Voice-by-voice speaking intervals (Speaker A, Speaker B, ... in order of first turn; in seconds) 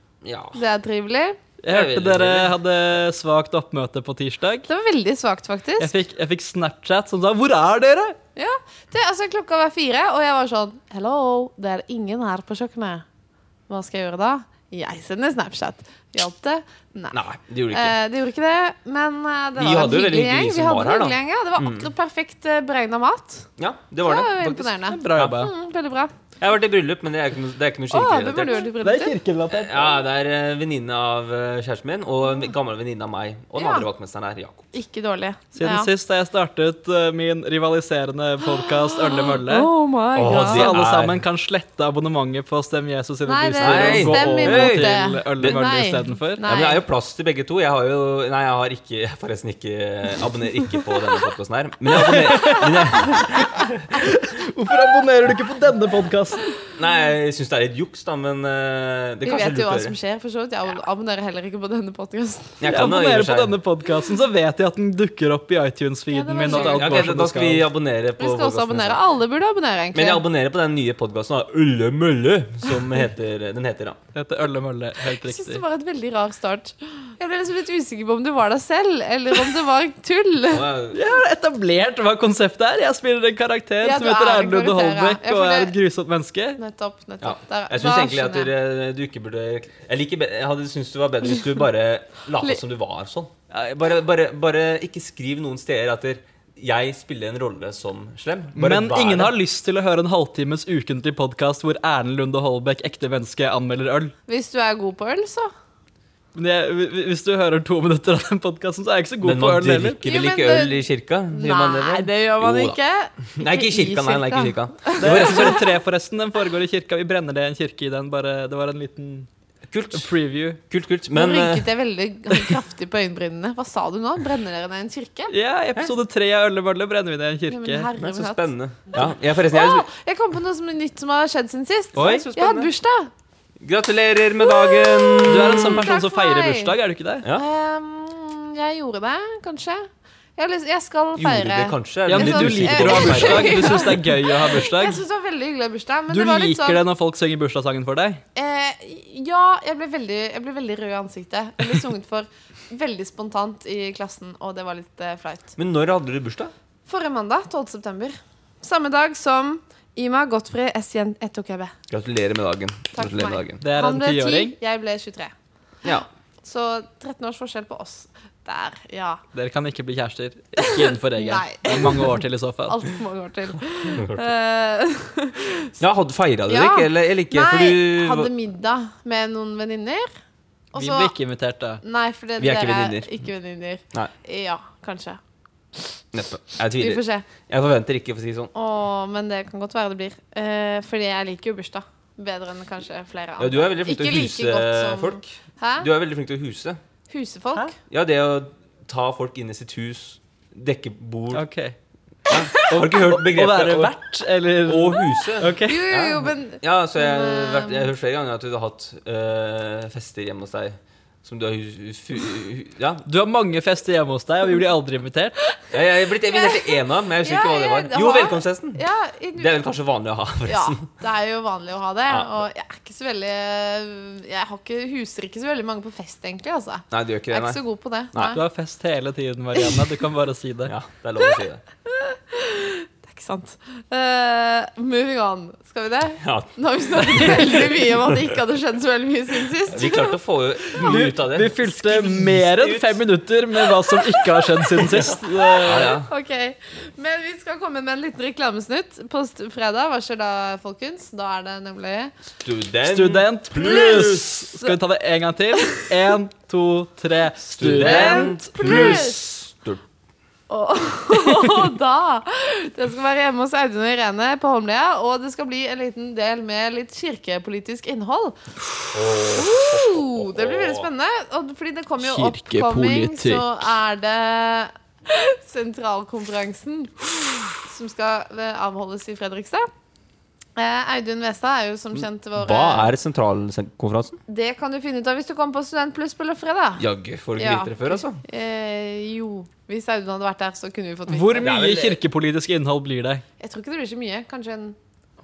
Speaker A: 0.2-0.6, 1.7-2.5, 17.1-17.9, 19.6-21.9, 23.6-25.4, 26.4-28.7, 29.5-34.7, 40.1-41.2, 43.6-45.6, 46.4-53.8, 56.8-60.0, 62.6-63.5, 66.5-69.0, 69.9-74.0, 80.5-81.0, 87.2-99.3, 109.2-112.8, 113.3-115.7, 119.7-120.1, 120.7-121.7, 128.0-129.8, 132.0-132.7, 133.6-135.8, 141.2-143.9, 155.6-156.5, 161.9-163.6, 173.9-174.3, 175.8-178.3, 182.4-183.1, 186.1-188.5, 193.4-196.8, 197.9-201.4, 202.3-203.9, 204.6-213.0, 215.7-218.8, 219.4-220.9, 222.1-222.4, 226.9-227.6, 230.7-231.6, 236.2-238.2, 239.7-243.0, 244.8-246.1, 252.4-254.4, 257.6-259.8, 268.9-270.9, 281.9-284.2, 286.8-288.2, 291.4-292.0
Speaker B: 0.5-1.4, 4.7-5.9, 8.3-13.0, 13.7-17.2, 17.7-23.5, 24.0-26.1, 27.9-29.1, 33.5-33.9, 34.7-35.9, 38.4-40.8, 43.3-46.8, 59.2-62.6, 66.1-67.0, 68.2-70.2, 75.1-80.7, 83.8-85.7, 86.6-88.5, 104.3-105.5, 110.0-115.6, 121.1-125.3, 127.5-133.1, 134.4-136.7, 137.3-146.8, 148.3-155.5, 156.8-161.7, 162.9-165.3, 165.9-169.2, 170.6-175.8, 176.5-180.1, 180.7-181.1, 181.8-185.2, 186.8-187.3, 188.5-195.9, 197.1-197.7, 205.6-207.9, 216.3-219.6, 220.4-228.4, 229.5-229.8, 231.9-240.2, 244.0-252.1, 253.6-254.8, 255.6-255.9, 257.7-259.2, 260.5-268.4, 269.3-279.7, 280.6-282.9, 284.3-286.8, 287.4-291.5, 293.4-294.8
Speaker C: 1.6-4.7, 5.8-8.2, 24.9-25.5, 28.8-30.0, 35.5-39.7, 40.2-46.4, 51.9-56.6, 62.6-67.7, 74.1-75.6, 80.9-86.6, 98.5-104.1, 106.3-110.0, 115.0-119.3, 119.9-120.6, 125.3-127.9, 131.9-132.3, 135.2-137.2, 142.1-145.0, 146.1-148.2, 163.6-164.5, 169.3-172.8, 180.8-181.8, 201.3-201.7, 202.6-205.9, 213.1-215.3, 228.3-230.7, 240.8-245.9, 252.8-259.1, 272.0-273.5, 291.1-293.2